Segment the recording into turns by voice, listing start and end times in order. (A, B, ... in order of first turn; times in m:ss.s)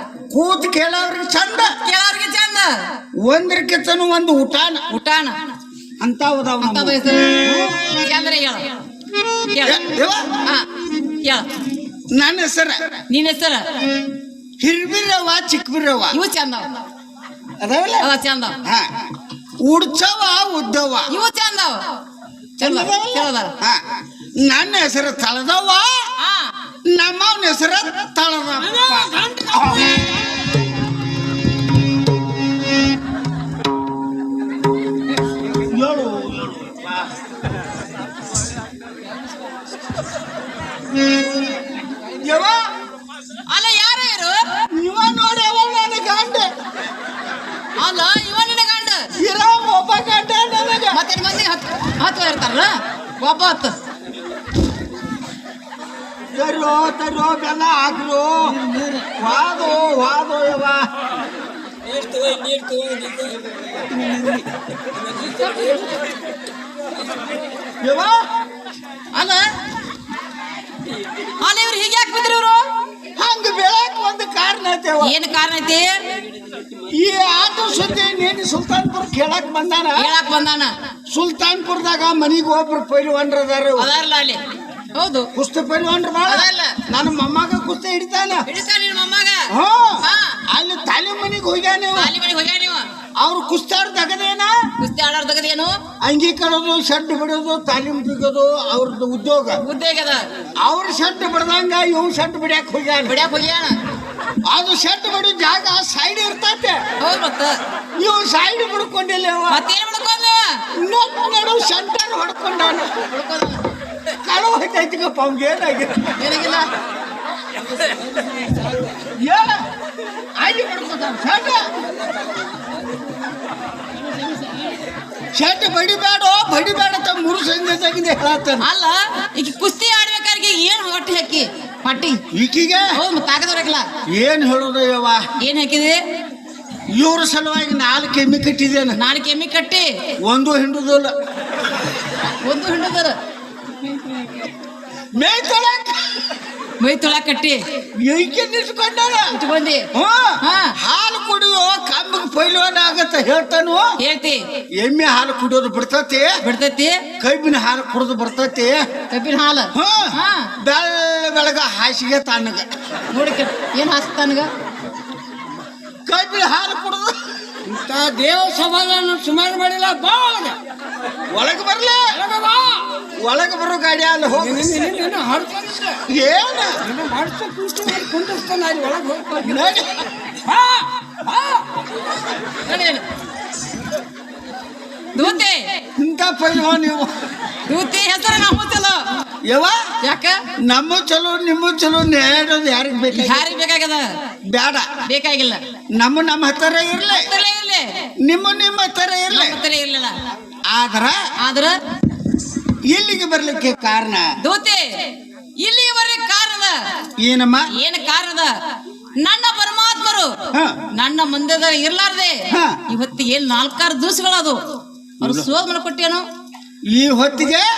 0:00.3-0:01.7 A
0:01.8-0:02.8 B
0:03.2-0:04.9 A
0:04.9-0:05.4 B
0:06.0-0:08.0 A
0:06.6-0:08.8 B
0:09.5-0:09.8 B
0:09.6-0:10.4 A
0:10.4-0:10.7 B
0:11.2-0:11.5 B
0:12.1-0:13.0 A
0:13.1-0:13.8 B
0:14.6-0:16.2 A
0:16.1-0:16.7 B
0:17.6-0:18.1 A
0:18.0-0:18.6 B
0:19.6-0:21.1 A
0:21.1-0:21.9 B
0:22.6-0:23.5 B
0:22.6-0:23.8 A
0:24.4-0:26.1 A
0:26.2-0:26.5 B
0:26.9-0:29.9 A
0:28.7-0:30.0 C
0:35.4-0:37.0 A
0:42.1-0:42.6 A
0:43.5-0:44.4 B
0:44.8-0:46.5 A
0:47.8-0:49.1 B
0:49.2-0:51.0 A
0:50.9-0:53.8 B
0:56.4-1:00.8 A
1:01.9-1:03.4 C
1:03.9-1:04.4 A
1:05.1-1:05.9 C
1:07.8-1:08.2 A
1:09.1-1:09.4 B
1:11.4-1:12.6 B
1:13.2-1:15.2 A
1:15.0-1:15.9 B
1:16.8-1:20.1 A
1:20.0-1:20.7 B
1:21.1-1:23.9 A
1:23.8-1:24.4 B
1:25.0-1:25.3 B
1:25.4-1:28.5 A
1:26.3-1:26.8 B
1:28.5-1:29.5 B
1:29.5-1:32.1 A
1:30.0-1:30.4 B
1:32.0-1:32.9 B
1:33.2-1:34.5 A
1:34.8-1:35.7 B
1:36.0-1:39.6 A
1:39.6-1:40.2 B
1:40.6-1:43.2 A
1:43.1-1:43.8 B
1:44.5-1:46.8 A
1:47.0-1:47.6 B
1:48.0-1:49.6 A
1:49.5-1:50.5 B
1:50.8-1:52.9 A
1:53.1-1:53.6 B
1:54.2-1:56.2 A
1:56.2-1:56.7 B
1:59.2-1:59.6 A
2:00.4-2:01.6 A
2:05.4-2:08.7 A
2:08.6-2:12.2 B
2:12.3-2:12.9 A
2:12.9-2:13.9 B
2:14.1-2:15.2 A
2:15.4-2:16.0 B
2:16.9-2:19.0 A
2:19.0-2:19.9 B
2:20.3-2:21.1 A
2:22.4-2:23.2 B
2:25.2-2:26.3 A
2:26.8-2:27.6 B
2:28.0-2:29.3 A
2:29.3-2:29.9 B
2:29.9-2:33.9 A
2:30.4-2:30.7 B
2:34.0-2:34.4 B
2:34.8-2:36.4 A
2:36.4-2:37.0 B
2:37.2-2:38.8 A
2:39.1-2:40.5 B
2:39.8-2:42.7 A
2:43.1-2:44.5 B
2:46.1-2:47.1 A
2:47.6-2:50.6 C
2:51.3-2:52.0 A
2:52.1-2:53.0 C
2:53.2-2:54.7 A
2:54.3-2:56.0 C
2:56.1-2:56.8 A
2:56.8-2:59.7 C
2:59.4-2:59.9 A
3:00.4-3:01.7 C
3:02.7-3:03.0 B
3:05.1-3:05.6 B
3:06.0-3:07.1 A
3:07.7-3:09.0 B
3:09.5-3:09.8 A
3:10.0-3:10.4 B
3:10.7-3:13.4 A
3:13.1-3:14.1 B
3:14.5-3:14.9 A
3:15.1-3:15.6 B
3:16.0-3:17.3 A
3:17.1-3:17.9 B
3:18.2-3:19.6 A
3:19.3-3:20.1 B
3:20.7-3:21.2 A
3:21.4-3:21.8 B
3:22.9-3:24.3 A
3:24.4-3:26.8 B
3:27.2-3:27.7 A
3:27.7-3:28.5 B
3:29.2-3:30.3 B
3:31.0-3:34.6 B
3:32.5-3:32.8 A
3:35.2-3:35.5 A
3:35.2-3:36.2 B
3:36.9-3:37.7 A